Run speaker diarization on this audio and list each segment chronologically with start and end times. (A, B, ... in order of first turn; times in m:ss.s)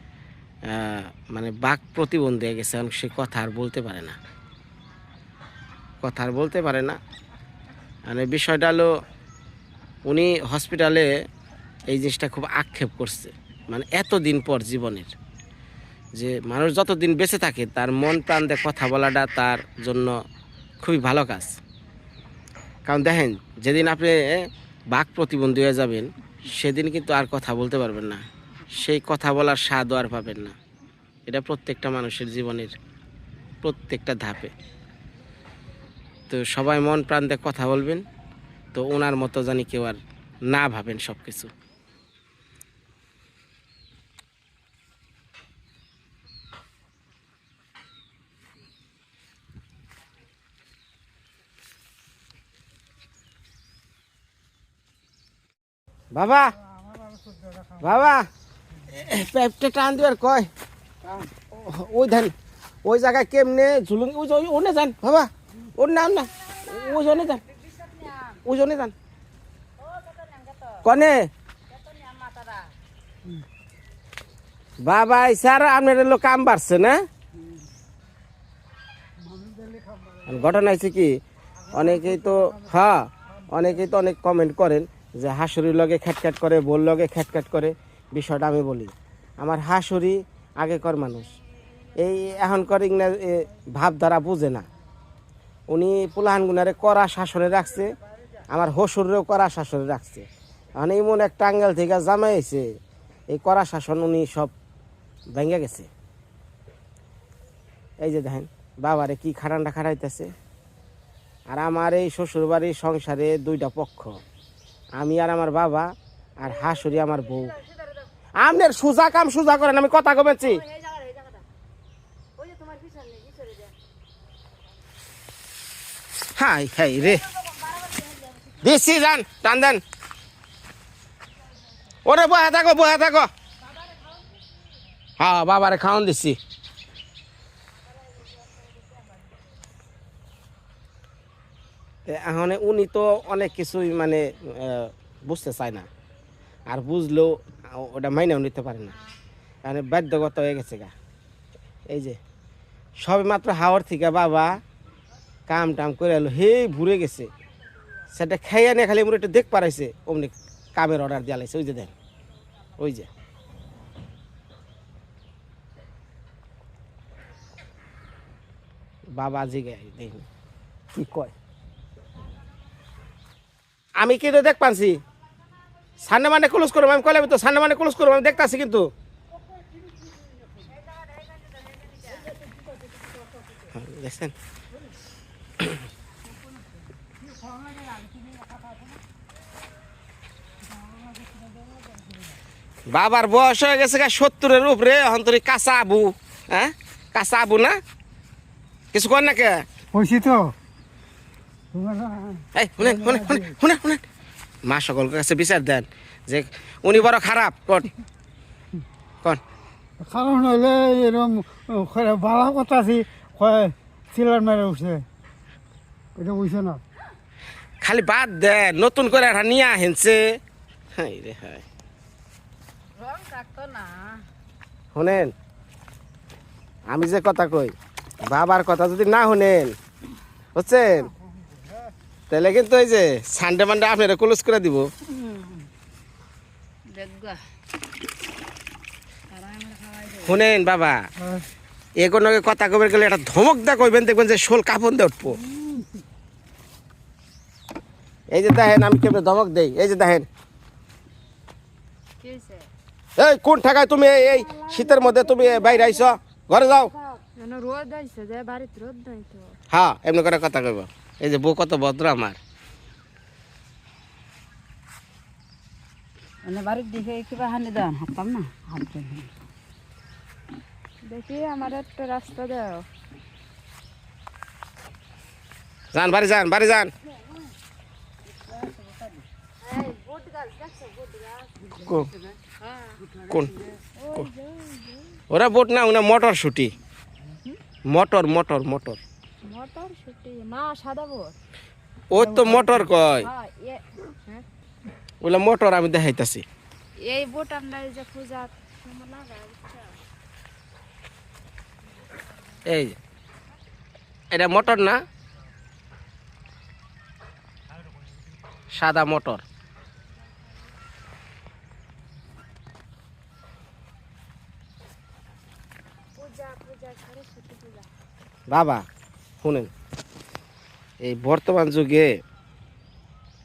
0:00.7-0:04.2 A
0:06.0-0:07.0 A
0:08.1-0:08.9 A
0:10.1-0:11.1 A
0:11.9-0:15.1 A
0:16.2-0:20.2 A
0:20.8-0:21.6 A
0:22.9-0:28.2 A
0:28.8-0:30.6 A
0:31.3-0:32.8 A
0:33.6-0:34.5 A
0:36.3-0:38.0 A
0:38.7-0:41.5 A
0:56.1-0:56.6 A
0:57.8-0:58.3 A
0:58.9-1:00.5 A
1:01.5-1:07.4 A
1:06.5-1:08.4 B
1:08.4-1:08.9 A
1:09.8-1:10.9 B
1:10.8-1:11.3 A
1:11.7-1:12.7 B
1:14.8-1:17.0 A
1:19.3-1:20.2 C
1:20.3-1:31.4 A
1:32.0-1:34.7 A
1:35.7-1:37.9 A
1:38.5-1:42.7 A
1:43.3-1:44.5 A
1:45.3-1:45.9 A
1:48.0-1:50.3 A
1:51.5-1:54.2 A
1:55.0-1:57.5 A
1:56.5-1:58.1 B
1:58.4-2:00.6 A
2:00.4-2:01.4 B
2:02.4-2:03.7 B
2:06.4-2:07.3 A
2:07.3-2:08.6 B
2:08.6-2:09.8 A
2:12.0-2:13.3 A
2:15.2-2:16.4 A
2:22.1-2:25.9 A
2:26.7-2:28.9 A
2:29.6-2:30.9 A
2:31.9-2:32.2 A
2:33.0-2:34.6 A
2:35.5-2:37.3 A
2:38.1-2:41.9 A
2:42.8-2:43.1 A
2:49.2-2:50.3 A
2:50.9-2:51.3 A
2:54.0-2:55.0 A
2:56.0-2:58.9 A
3:03.7-3:04.3 A
3:12.9-3:17.8 A
3:18.9-3:19.6 A
3:19.9-3:20.6 C
3:21.7-3:23.5 C
3:22.6-3:24.0 A
3:24.6-3:27.9 A
3:30.0-3:35.1 C
3:36.2-3:36.8 C
3:37.8-3:40.4 A
3:41.0-3:41.6 A
3:43.0-3:44.2 B
3:44.9-3:45.3 A
3:46.9-3:47.7 A
3:48.3-3:49.8 A
3:50.6-3:51.1 A
3:52.3-3:54.9 A
3:55.1-3:55.7 B
3:56.9-3:57.4 B
3:59.3-4:00.4 B
4:00.2-4:01.1 A
4:02.0-4:05.4 A
4:05.5-4:05.9 B
4:08.3-4:10.3 A
4:12.2-4:12.7 D
4:13.2-4:16.9 A
4:14.3-4:16.2 B
4:17.4-4:19.6 D
4:19.7-4:22.4 A
4:26.5-4:29.3 B
4:31.0-4:32.9 D
4:35.9-4:36.9 A
4:38.3-4:39.2 B
4:39.7-4:41.4 D
4:40.2-4:40.9 B
4:41.8-4:42.1 A
4:42.8-4:43.2 B
4:43.3-4:43.6 A
4:44.0-4:45.2 D
4:45.3-4:46.7 A
4:47.9-4:49.0 A
4:49.4-4:51.4 D
4:52.1-4:53.3 A
4:52.2-4:54.4 D
4:55.2-4:56.4 A
4:57.0-5:00.0 D
5:02.7-5:03.0 A
5:04.3-5:05.0 A
5:08.7-5:09.4 A
5:16.2-5:17.9 D
5:18.5-5:18.8 A
5:19.4-5:19.7 A
5:21.0-5:22.2 A